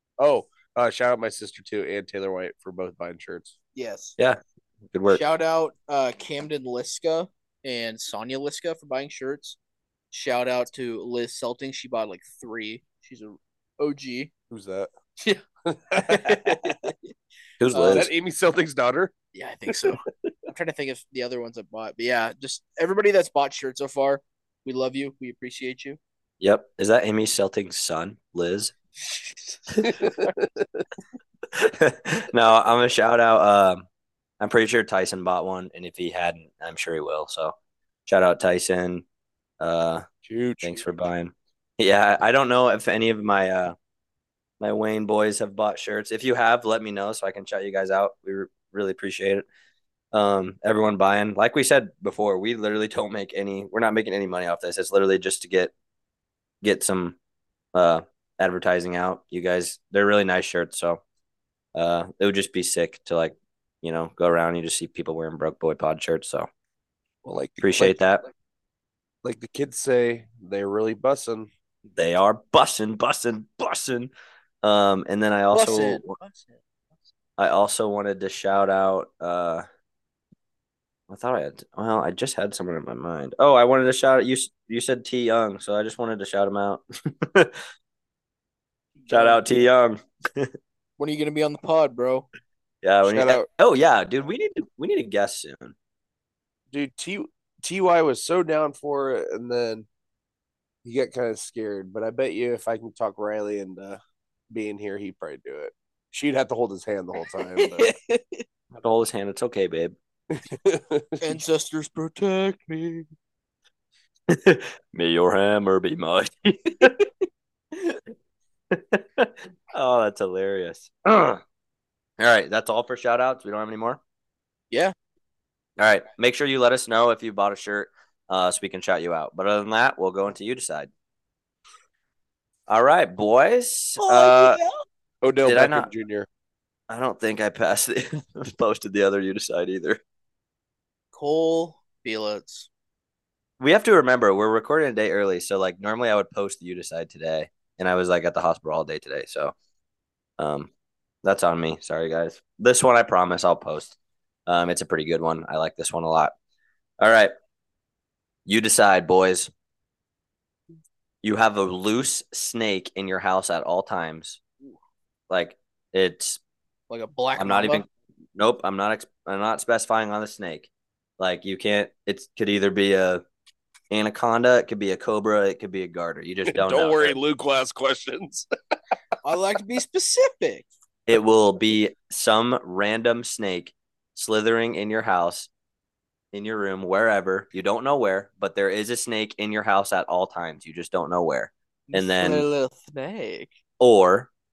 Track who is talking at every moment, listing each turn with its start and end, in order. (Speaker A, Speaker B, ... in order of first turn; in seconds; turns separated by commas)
Speaker A: 0.2-3.6, Speaker B: 3.8-4.2, Speaker C: 4.9-5.2, Speaker B: 5.1-9.6, Speaker B: 10.1-14.3, Speaker A: 14.5-14.9, Speaker B: 15.2-15.4, Speaker A: 15.7-16.8, Speaker B: 15.9-16.9, Speaker C: 17.6-18.1, Speaker B: 17.7-18.1, Speaker A: 17.9-19.1, Speaker B: 19.3-26.0, Speaker C: 26.4-28.7, Speaker B: 29.0-30.3, Speaker A: 29.8-30.8, Speaker C: 31.5-33.9, Speaker C: 34.4-37.6, Speaker C: 38.1-39.0, Speaker C: 39.6-40.1, Speaker A: 40.2-40.8, Speaker C: 40.6-43.8, Speaker C: 44.6-49.5, Speaker C: 50.1-55.7, Speaker C: 56.6-57.2, Speaker C: 57.7-61.0, Speaker C: 61.8-66.5, Speaker A: 67.2-68.0, Speaker C: 67.6-68.3, Speaker A: 69.2-71.5, Speaker C: 71.9-74.1, Speaker C: 74.6-76.2, Speaker B: 75.5-76.6, Speaker C: 77.4-79.6, Speaker C: 81.1-87.6, Speaker B: 89.0-89.6, Speaker C: 89.1-90.5, Speaker B: 91.0-92.3, Speaker C: 92.8-95.7, Speaker A: 93.0-93.5, Speaker A: 96.7-99.9, Speaker A: 100.8-104.0, Speaker A: 104.5-107.9, Speaker B: 107.3-108.4, Speaker C: 108.7-110.0, Speaker A: 110.3-111.2, Speaker B: 111.2-113.1, Speaker C: 114.3-117.0, Speaker C: 117.7-118.0, Speaker C: 118.7-121.4, Speaker C: 122.2-124.0, Speaker C: 125.8-130.9, Speaker C: 132.7-134.6, Speaker B: 134.0-134.8, Speaker A: 135.2-136.3, Speaker C: 135.4-135.9, Speaker C: 136.9-140.0, Speaker B: 141.1-142.7, Speaker C: 143.6-149.6, Speaker C: 150.4-150.7, Speaker C: 151.2-154.0, Speaker C: 154.5-156.3, Speaker C: 157.0-157.3, Speaker C: 158.5-159.5, Speaker C: 161.2-164.4, Speaker C: 165.3-166.4, Speaker B: 166.9-167.8, Speaker C: 167.4-173.2, Speaker C: 173.9-177.2, Speaker A: 176.5-178.5, Speaker B: 179.2-180.7, Speaker C: 181.1-185.5, Speaker C: 186.3-192.4, Speaker B: 191.9-193.5, Speaker C: 193.8-194.3